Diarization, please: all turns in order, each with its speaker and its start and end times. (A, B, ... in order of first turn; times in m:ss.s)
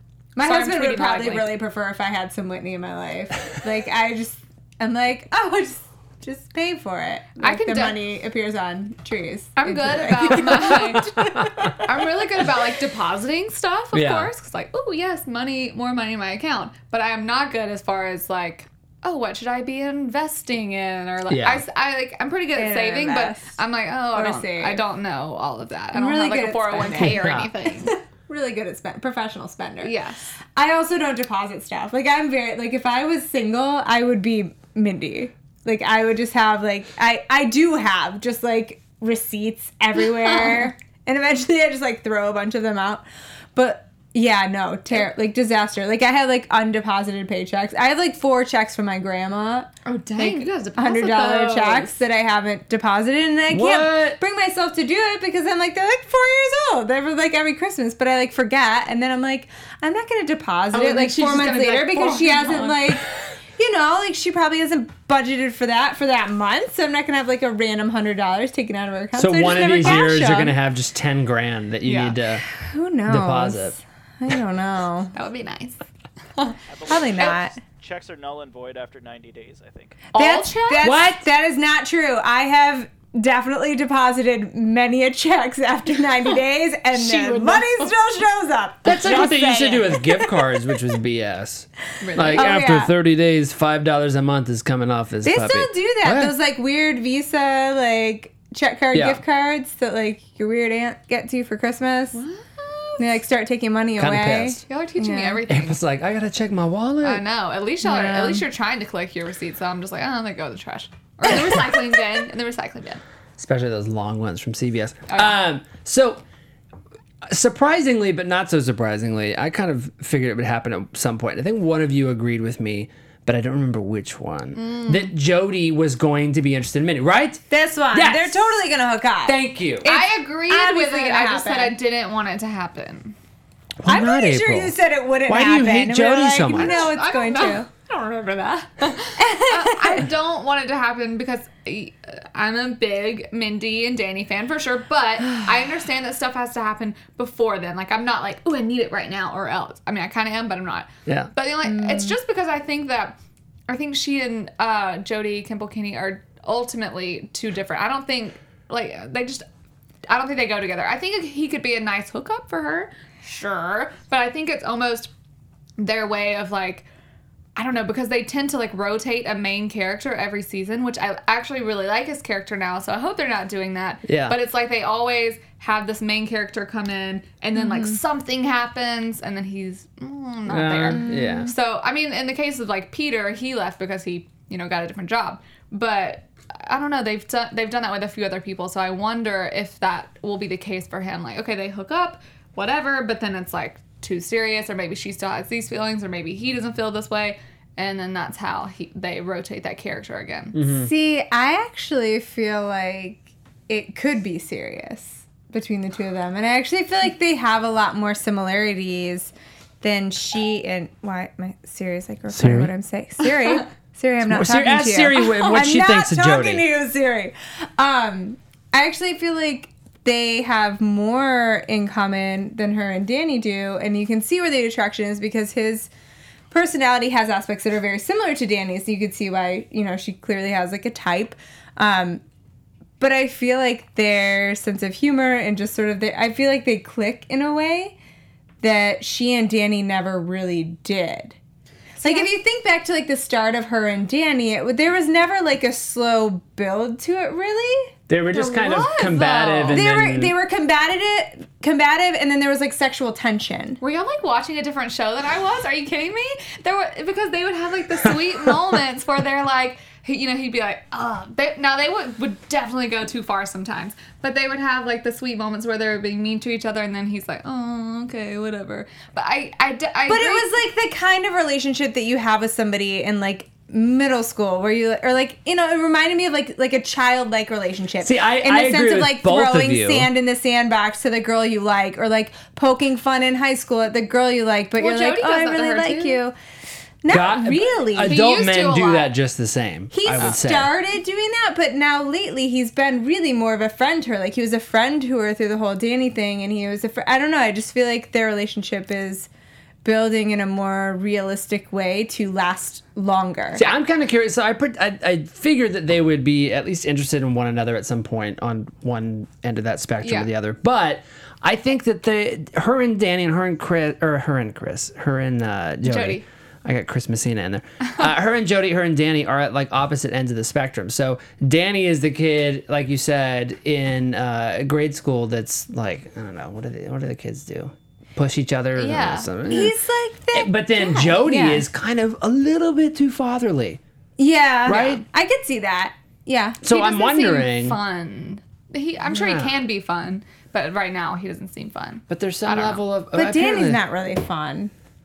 0:00.4-0:11.9 A
0:00.4-0:01.6 B
0:07.4-0:08.0 B
0:09.6-0:27.9 B
0:11.0-0:11.8 C
0:13.9-0:14.3 C
0:21.3-0:21.6 C
0:22.6-0:23.5 A
0:24.1-0:24.8 A
0:25.9-0:29.9 A
0:26.9-0:27.5 C
0:29.8-0:30.4 B
0:30.5-1:03.0 A
0:40.2-0:40.7 B
0:49.8-0:51.9 B
0:53.5-0:54.2 C
1:00.7-1:03.0 B
1:03.6-1:10.6 A
1:09.2-1:12.4 C
1:11.8-1:12.2 B
1:12.5-1:15.1 A
1:13.1-1:13.8 C
1:15.1-1:15.8 B
1:16.7-1:20.0 D
1:16.9-1:17.6 A
1:20.1-1:21.0 B
1:20.1-1:30.7 A
1:20.8-1:21.2 C
1:26.9-1:27.9 B
1:28.8-1:36.3 C
1:32.0-1:32.6 B
1:32.3-1:32.9 A
1:35.2-1:42.2 A
1:38.9-1:39.2 C
1:42.1-1:43.1 B
1:43.0-1:45.4 A
1:44.0-1:44.6 C
1:44.7-1:45.8 B
1:45.5-1:47.2 C
1:47.0-1:53.0 B
1:47.8-1:48.4 A
1:53.4-1:56.2 C
1:55.1-1:55.3 B
1:57.3-2:08.6 C
2:04.5-2:05.1 B
2:07.5-2:11.8 A
2:09.2-2:09.9 C
2:09.8-2:13.1 B
2:13.8-2:16.9 C
2:13.8-2:17.7 A
2:16.5-2:33.2 B
2:19.2-2:20.1 A
2:31.6-2:32.2 A
2:33.7-2:39.4 B
2:40.1-2:45.1 B
2:45.8-2:46.8 B
2:47.6-3:20.6 B
2:54.0-2:54.4 C
2:57.6-2:58.0 A
3:00.5-3:01.5 C
3:00.9-3:01.5 A
3:20.5-3:20.9 C
3:20.7-3:45.9 A
3:32.3-3:32.7 C
3:34.2-3:36.6 C
3:46.5-3:52.2 A
3:53.0-3:57.9 A
3:58.6-4:01.4 A
4:02.0-4:02.3 B
4:02.0-4:07.9 A
4:08.1-4:10.3 C
4:08.3-4:09.8 B
4:09.7-4:13.8 A
4:13.8-4:30.5 B
4:30.1-4:46.3 A
4:38.0-4:40.1 C
4:44.8-4:46.2 B
4:47.0-4:48.2 A
4:47.1-4:50.7 C
4:48.0-4:49.1 B
4:49.9-4:59.3 A
4:59.8-5:03.6 A
5:03.5-5:29.8 C
5:10.0-5:10.3 B
5:15.8-5:16.2 B
5:28.8-5:29.3 B
5:29.5-5:31.7 A
5:30.3-5:33.8 C
5:34.2-5:36.6 A
5:34.6-5:35.0 C
5:36.6-5:37.8 C
5:36.7-5:42.8 B
5:39.1-5:39.5 C
5:42.1-5:43.8 C
5:43.1-5:44.7 A